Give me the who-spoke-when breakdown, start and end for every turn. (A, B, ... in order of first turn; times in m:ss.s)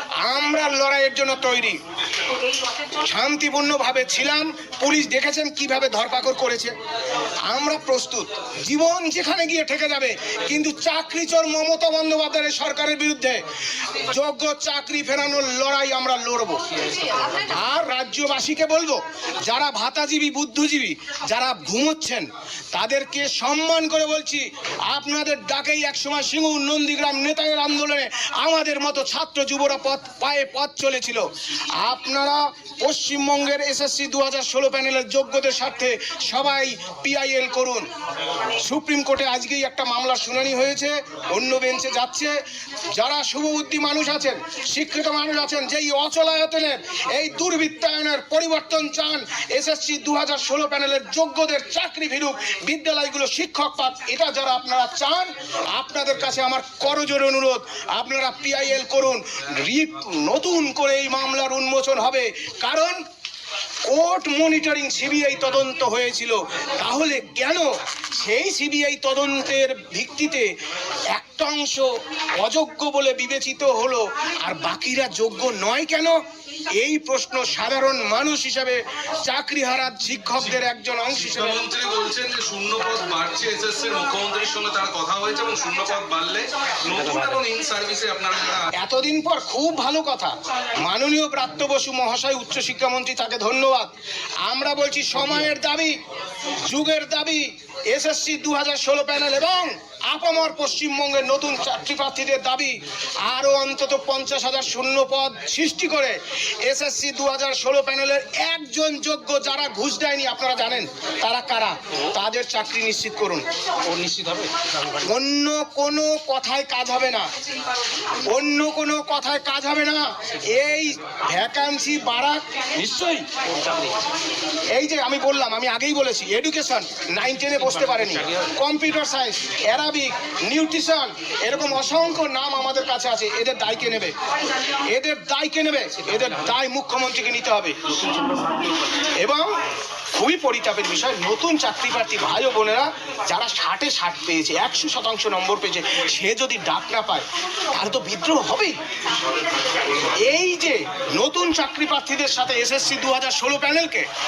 0:00.2-0:01.8 A
0:02.7-0:06.7 A
0:07.5-0:16.6 A
0:17.2-0:37.8 A
0:38.6-0:42.4 A
0:42.9-1:03.0 A
1:03.8-1:10.5 A
1:11.1-1:16.1 A
1:16.8-1:21.6 A
1:21.2-1:28.7 B
1:28.7-1:33.9 A
1:34.4-1:36.0 A
1:36.6-1:53.4 A
1:53.8-1:55.0 C
1:54.9-1:57.3 A
1:58.3-2:03.2 A
2:03.0-2:04.0 C
2:04.7-2:14.1 A
2:14.7-2:18.0 A
2:18.1-2:18.7 C
2:18.8-2:19.5 A
2:20.1-2:28.8 A
2:30.0-2:34.0 A